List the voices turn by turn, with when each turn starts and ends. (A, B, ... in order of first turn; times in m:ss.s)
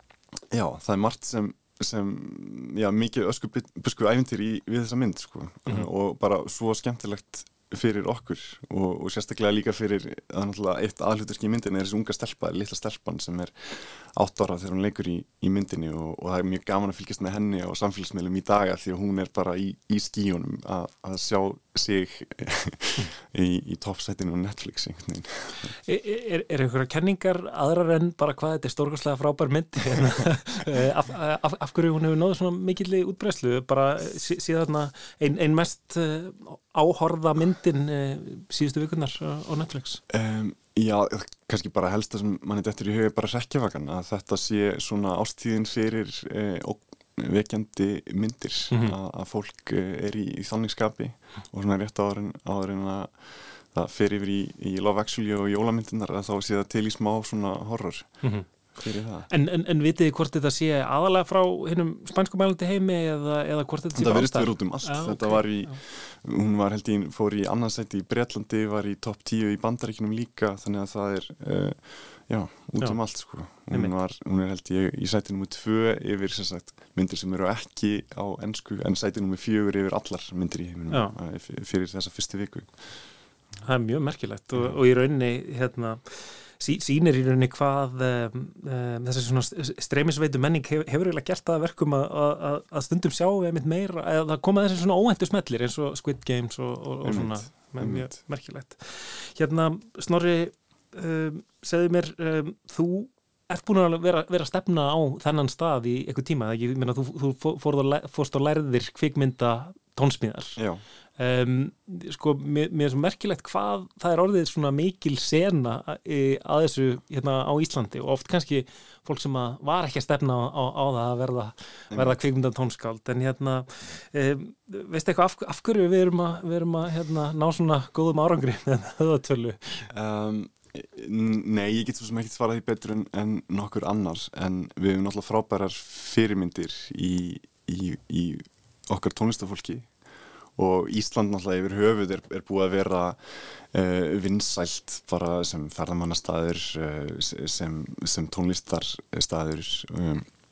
0:00.5-0:25.7 A
0:25.9-0:40.0 B
0:40.1-0:53.2 A
0:48.7-0:49.0 B
0:53.7-0:59.3 A
0:59.3-1:05.8 B
1:03.9-1:22.7 A
1:20.9-1:21.1 B
1:23.6-1:26.0 B
1:26.6-1:50.6 B
1:37.0-1:38.2 A
1:50.6-1:50.8 A
1:51.2-2:09.8 B
2:01.9-2:02.2 A
2:09.9-2:19.9 A
2:20.6-2:30.2 A